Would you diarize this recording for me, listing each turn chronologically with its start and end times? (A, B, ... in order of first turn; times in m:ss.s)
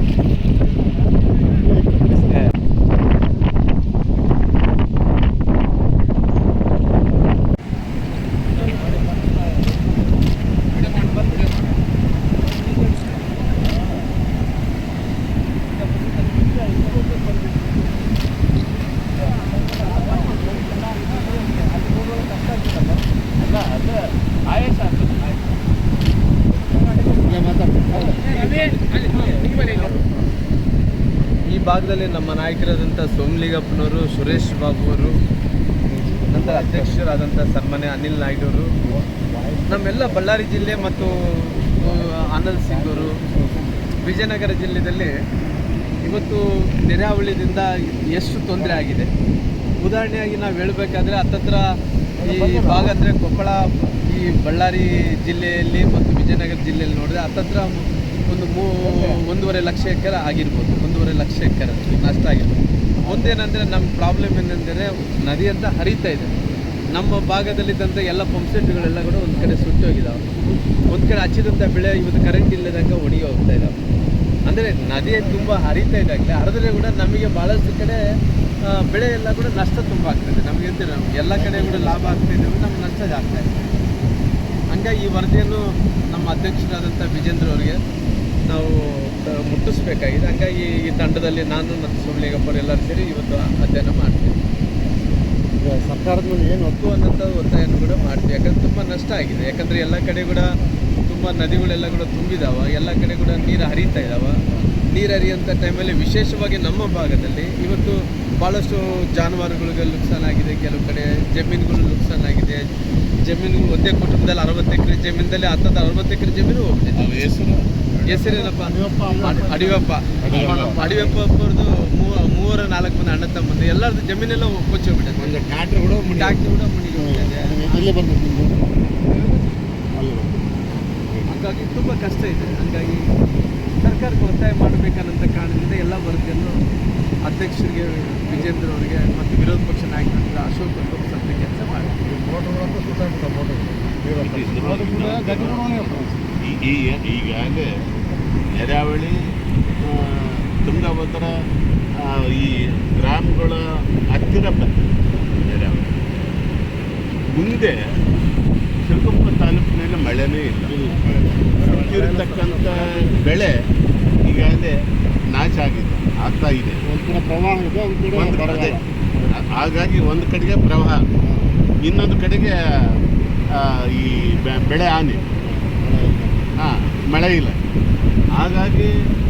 0:01.7-0:02.2 A
0:22.2-0:22.7 B
0:27.2-0:28.3 A
0:28.3-0:29.9 B
0:31.5-0:35.2 B
0:35.9-0:36.9 A
0:36.3-0:38.8 B
0:38.8-0:43.9 A
0:39.7-0:43.1 B
0:44.0-0:45.1 B
0:46.0-0:49.1 B
0:49.8-1:06.3 B
0:52.2-0:52.7 A
1:06.9-1:10.2 B
1:10.9-1:13.8 B
1:14.5-1:18.0 B
1:18.7-1:23.5 B
1:24.7-1:27.8 B
1:28.5-1:34.4 B
1:35.6-1:36.7 A
1:36.7-1:40.6 B
1:41.1-1:52.6 B
1:53.2-1:57.2 B
1:57.0-1:58.2 C
1:58.1-2:05.4 B
1:58.1-2:01.2 A
2:00.2-2:00.8 C
2:05.3-2:06.3 A
2:06.1-2:07.5 B
2:07.0-2:08.6 A
2:09.9-2:10.5 A
2:11.3-2:13.0 B
2:13.8-2:16.6 B
2:17.2-2:22.0 B
2:22.0-2:26.1 A
2:24.2-2:27.7 C
2:28.5-2:29.1 C
2:29.8-2:31.4 C
2:32.0-2:35.9 C
2:37.3-2:37.8 C
2:38.8-2:40.9 C
2:40.7-2:43.1 A
2:41.6-2:43.5 C
2:44.2-2:44.8 C
2:45.3-2:46.8 C
2:46.8-2:49.2 A
2:48.1-2:51.0 C
2:51.8-2:53.0 C
2:53.5-2:55.3 C
2:55.5-2:56.5 A
2:56.6-2:57.6 C
2:58.4-2:58.9 C